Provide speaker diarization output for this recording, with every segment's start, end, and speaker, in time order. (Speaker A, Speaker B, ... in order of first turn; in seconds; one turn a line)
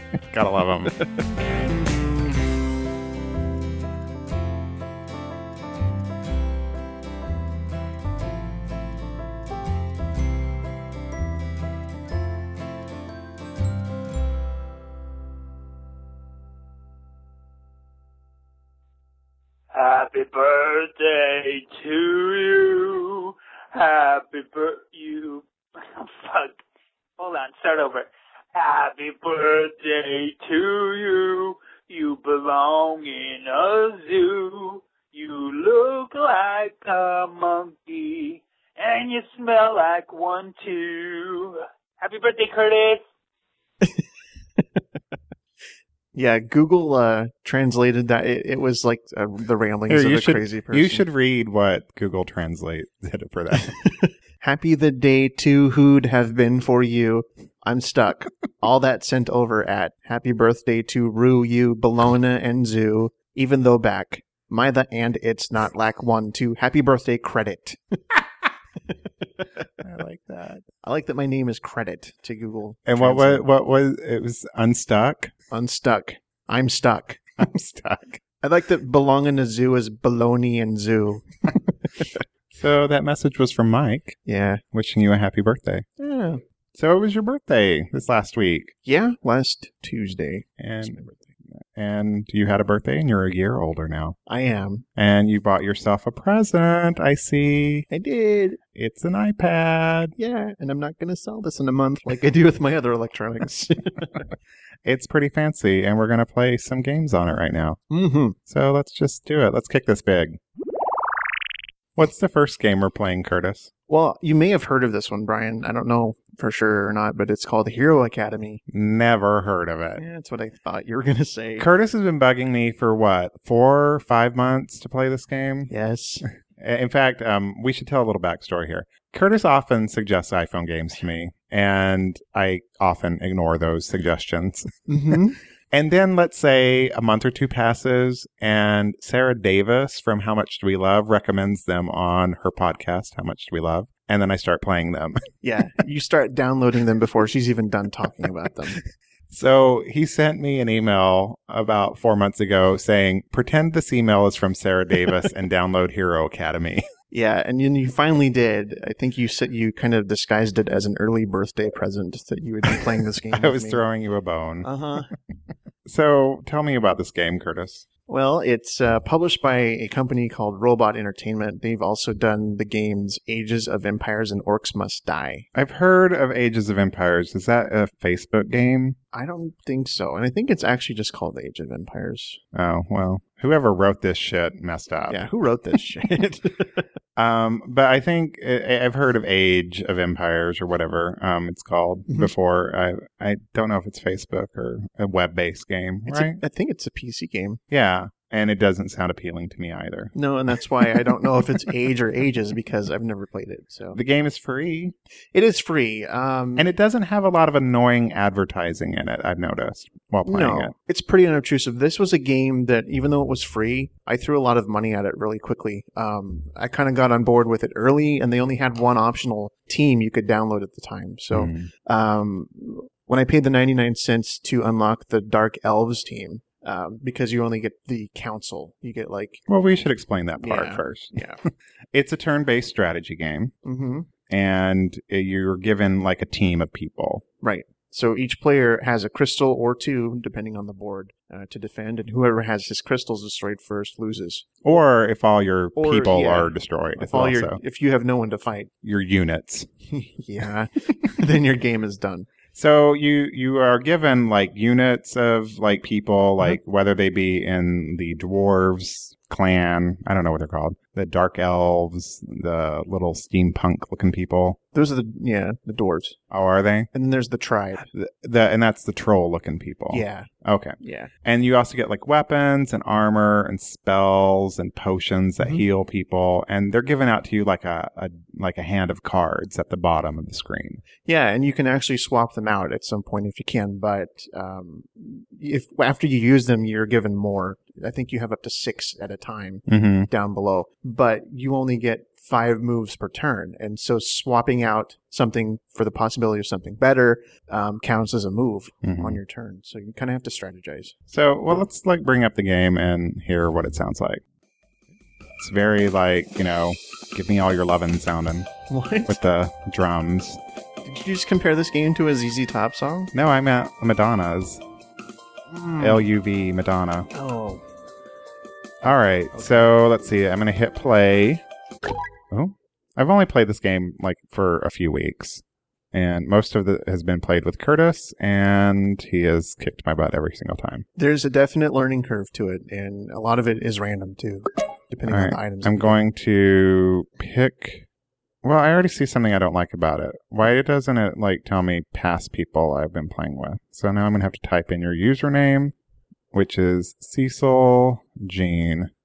Speaker A: 0.1-0.9
Speaker B: 0.9-1.3
Speaker C: 19.7-26.6
Speaker C: 27.2-43.0
Speaker B: 44.6-44.8
Speaker B: 46.1-51.0
Speaker A: 49.9-53.8
Speaker B: 53.6-68.2
Speaker B: 68.9-69.7
Speaker A: 69.8-70.7
Speaker B: 70.8-73.5
Speaker A: 72.9-75.3
Speaker B: 75.5-77.4
Speaker A: 77.4-78.2
Speaker B: 78.4-82.2
Speaker A: 82.5-84.2
Speaker B: 84.3-84.6
Speaker A: 84.7-85.9
Speaker B: 86.0-86.4
Speaker A: 86.8-88.7
Speaker B: 88.8-91.3
Speaker A: 90.6-91.0
Speaker A: 91.6-94.2
Speaker B: 94.3-94.8
Speaker A: 95.0-97.9
Speaker B: 97.9-98.6
Speaker A: 98.7-100.2
Speaker B: 100.2-104.3
Speaker A: 104.8-107.8
Speaker B: 107.9-108.4
Speaker A: 108.5-110.4
Speaker A: 112.0-113.7
Speaker B: 113.9-118.6
Speaker A: 118.7-120.0
Speaker B: 120.0-121.7
Speaker A: 121.6-125.7
Speaker B: 125.7-126.3
Speaker A: 126.6-134.7
Speaker B: 134.9-135.4
Speaker A: 135.7-145.2
Speaker B: 145.4-148.8
Speaker A: 149.3-156.9
Speaker B: 157.1-163.8
Speaker A: 163.2-164.7
Speaker B: 164.6-165.1
Speaker A: 165.9-167.9
Speaker B: 168.1-175.5
Speaker A: 175.6-179.0
Speaker B: 179.1-182.4
Speaker A: 182.5-185.2
Speaker B: 185.1-186.9
Speaker A: 187.2-196.4
Speaker B: 196.1-197.6
Speaker A: 197.7-200.1
Speaker B: 200.1-204.0
Speaker A: 203.9-204.9
Speaker B: 205.3-206.7
Speaker A: 206.6-210.7
Speaker B: 210.2-229.4
Speaker A: 221.3-221.7
Speaker A: 229.5-233.5
Speaker B: 230.4-231.4
Speaker B: 233.6-234.1
Speaker A: 234.3-237.2
Speaker B: 237.4-244.5
Speaker A: 244.6-247.6
Speaker B: 245.8-248.7
Speaker A: 248.8-249.7
Speaker B: 249.9-252.3
Speaker A: 252.6-264.6
Speaker B: 264.7-266.2
Speaker A: 266.3-266.9
Speaker B: 266.9-267.9
Speaker A: 267.9-280.8
Speaker B: 269.9-270.3
Speaker B: 270.8-271.1
Speaker B: 281.1-300.9
Speaker A: 289.7-290.1
Speaker A: 298.8-299.2
Speaker A: 301.1-304.2
Speaker A: 305.4-308.5
Speaker B: 308.7-309.2
Speaker A: 309.1-310.4
Speaker B: 310.9-313.1
Speaker A: 313.1-314.6
Speaker B: 315.5-316.1
Speaker A: 315.8-317.1
Speaker B: 317.1-317.6
Speaker A: 318.8-321.4
Speaker B: 319.3-319.7
Speaker A: 322.3-330.9
Speaker B: 331.0-336.0
Speaker A: 335.1-337.9
Speaker A: 338.4-345.7
Speaker A: 346.3-348.9